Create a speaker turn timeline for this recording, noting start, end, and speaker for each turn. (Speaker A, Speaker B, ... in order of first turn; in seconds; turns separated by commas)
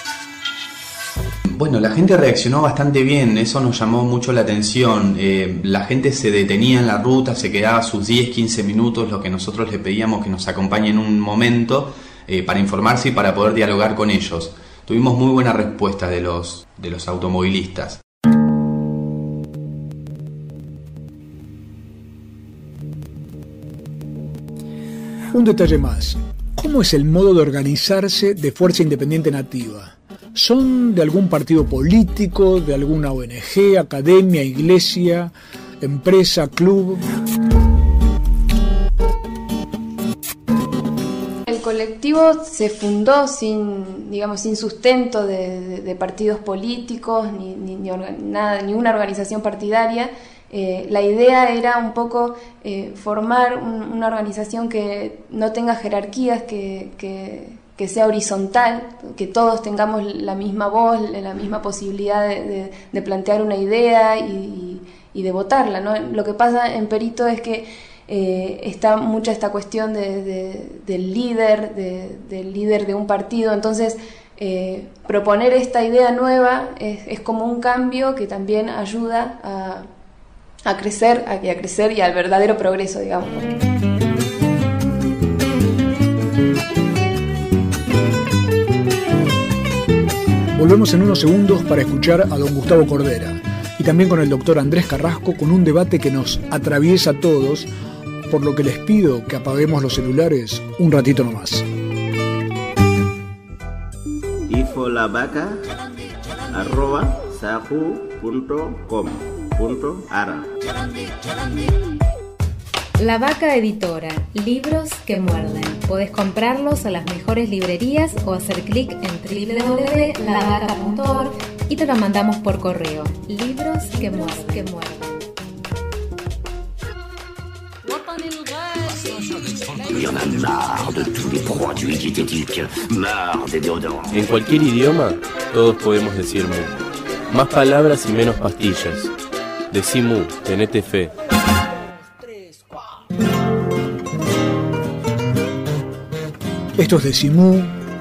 Speaker A: 1.5-18.0, Speaker B: 25.3-37.0, Speaker C: 41.5-79.8, Speaker C: 80.6-83.5, Speaker B: 90.5-97.7, Speaker B: 98.3-101.7, Speaker D: 104.5-105.6, Speaker D: 106.5-110.5, Speaker E: 113.0-125.2, Speaker F: 130.0-132.9, Speaker F: 134.0-139.1, Speaker F: 139.7-141.1, Speaker B: 146.8-147.8